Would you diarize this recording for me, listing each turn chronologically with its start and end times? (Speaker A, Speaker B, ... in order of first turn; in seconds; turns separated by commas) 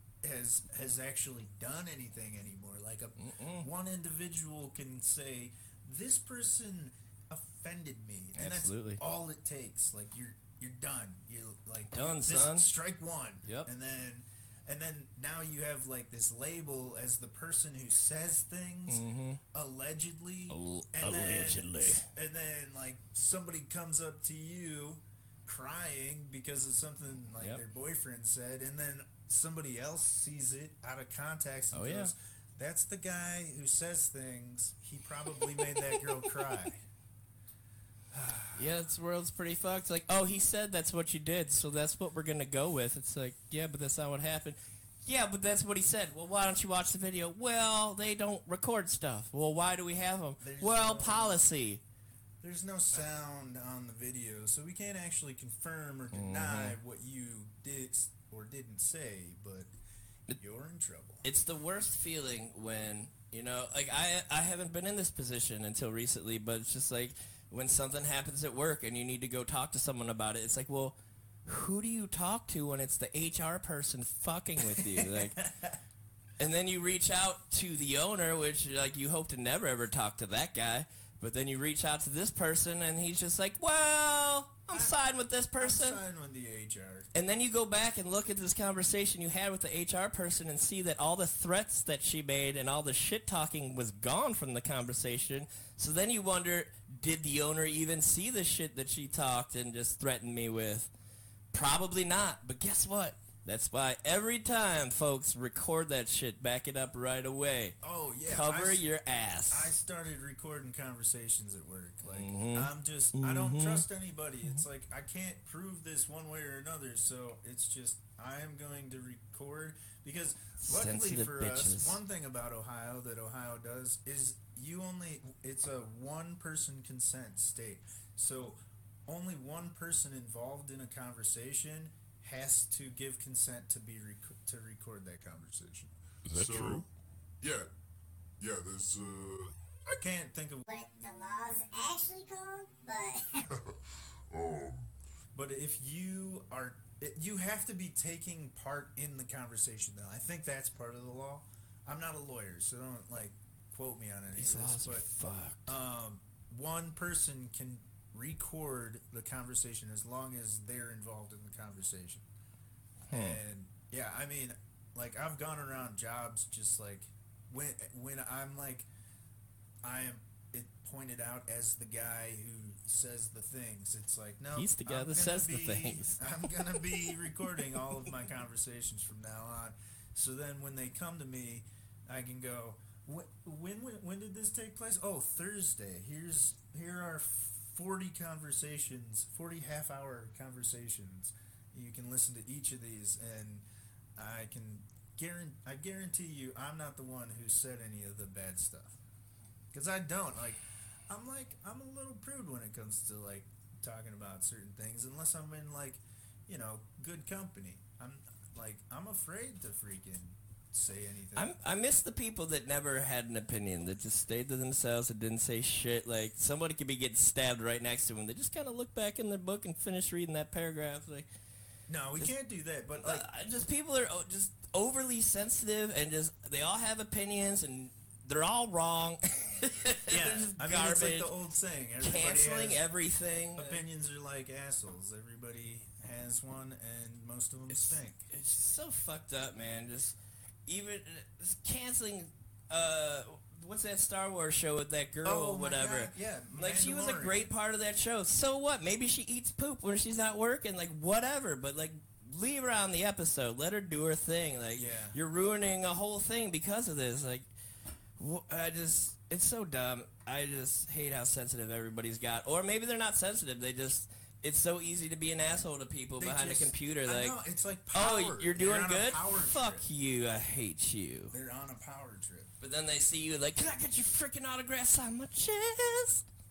Speaker A: 0.2-36.8, Speaker B: 3.2-3.7, Speaker B: 8.3-9.0, Speaker B: 11.9-12.7, Speaker B: 18.9-19.4, Speaker B: 20.5-22.1, Speaker B: 31.7-32.1, Speaker B: 35.3-36.6, Speaker A: 38.1-38.7, Speaker B: 38.5-51.8, Speaker A: 50.4-51.4, Speaker A: 52.4-59.7, Speaker B: 56.1-56.8, Speaker A: 60.4-61.2, Speaker B: 61.2-75.5, Speaker A: 74.6-75.8, Speaker B: 76.4-86.0, Speaker A: 84.7-85.0, Speaker A: 85.6-87.1, Speaker B: 87.1-100.9, Speaker B: 101.5-107.8, Speaker A: 107.8-108.8, Speaker B: 108.3-109.7, Speaker A: 109.5-136.8, Speaker B: 112.0-113.8, Speaker B: 120.6-122.0, Speaker C: 136.3-136.9, Speaker C: 137.4-137.7, Speaker C: 138.4-139.6, Speaker A: 140.0-140.6, Speaker D: 140.7-143.5, Speaker C: 144.3-144.9, Speaker A: 145.3-155.1, Speaker B: 154.3-155.8, Speaker A: 155.7-162.3, Speaker B: 163.1-163.4, Speaker A: 163.1-168.9, Speaker A: 169.8-193.6, Speaker B: 174.5-176.2, Speaker A: 194.2-199.0, Speaker A: 199.7-211.5, Speaker B: 211.3-221.3, Speaker A: 221.9-223.2, Speaker B: 223.0-231.3, Speaker A: 230.1-232.8, Speaker B: 232.0-233.8, Speaker A: 233.6-238.3, Speaker B: 237.7-257.5, Speaker A: 245.2-247.5, Speaker A: 254.8-255.2, Speaker B: 258.2-267.4, Speaker A: 266.2-269.9, Speaker B: 267.9-271.3, Speaker A: 271.3-272.5, Speaker B: 272.6-276.2